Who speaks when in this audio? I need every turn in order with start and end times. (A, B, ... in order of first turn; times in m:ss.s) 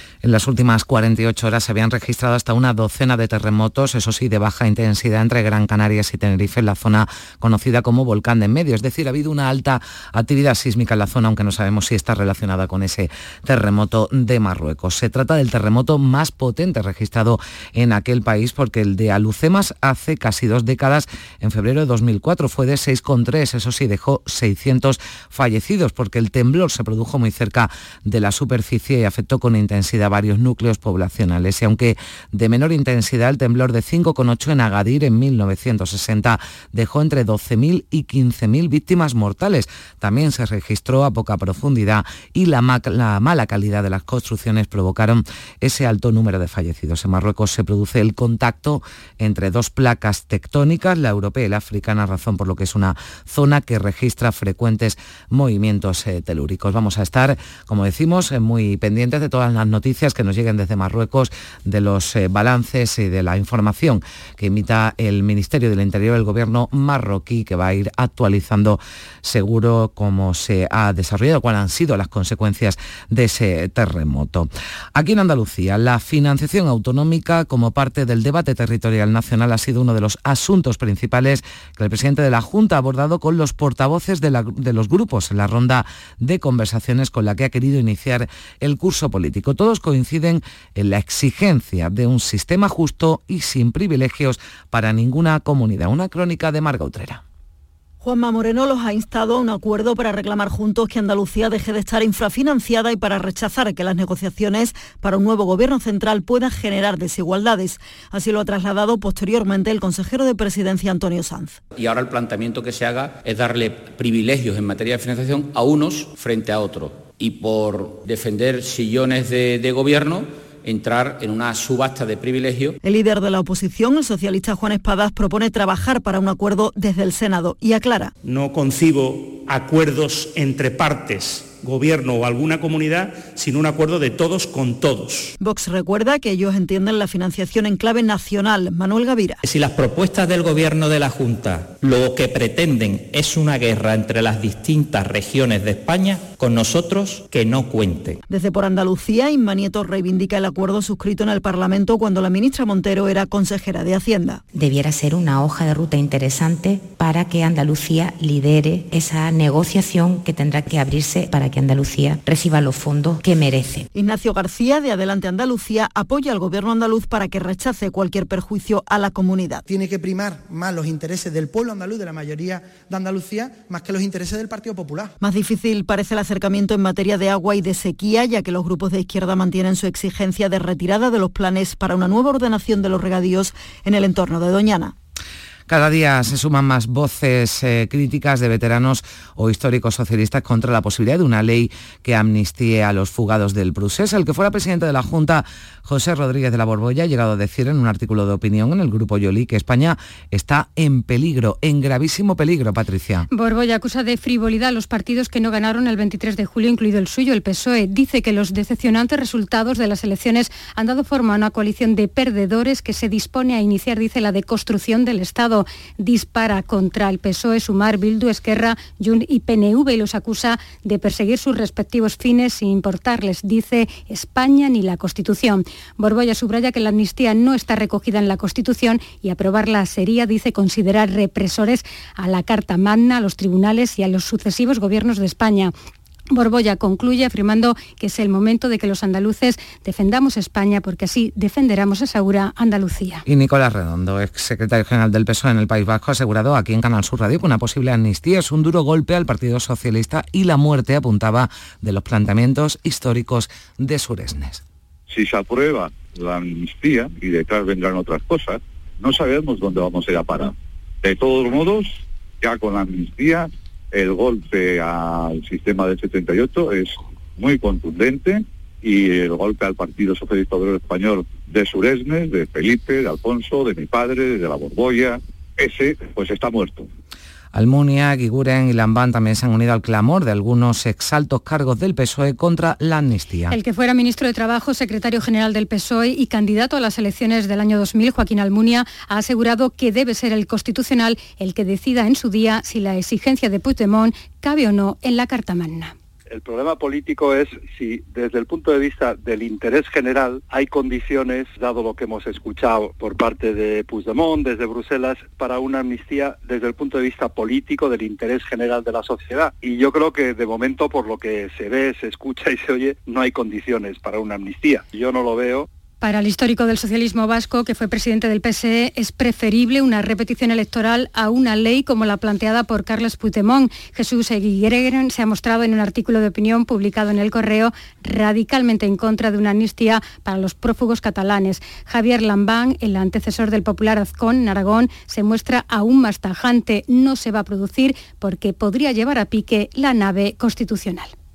0:00.2-1:37.2 A
1:38.0-1:51.6 B
1:51.8-2:02.8 C
2:02.8-2:08.1 B
2:08.2-2:15.3 D
2:15.4-2:19.4 B
2:19.4-2:28.2 E
2:28.3-2:34.4 B
2:34.6-2:43.8 F
2:43.9-2:49.6 B
2:49.7-2:55.1 G
2:55.2-3:04.9 B
3:05.7-3:23.3 A
3:23.3-3:55.7 H
3:56.3-4:03.2 H
4:03.3-4:14.6 A
4:15.1-4:36.9 I
4:37.5-4:43.6 A
4:43.5-4:55.9 H
4:56.3-5:15.7 J
5:16.0-5:41.1 H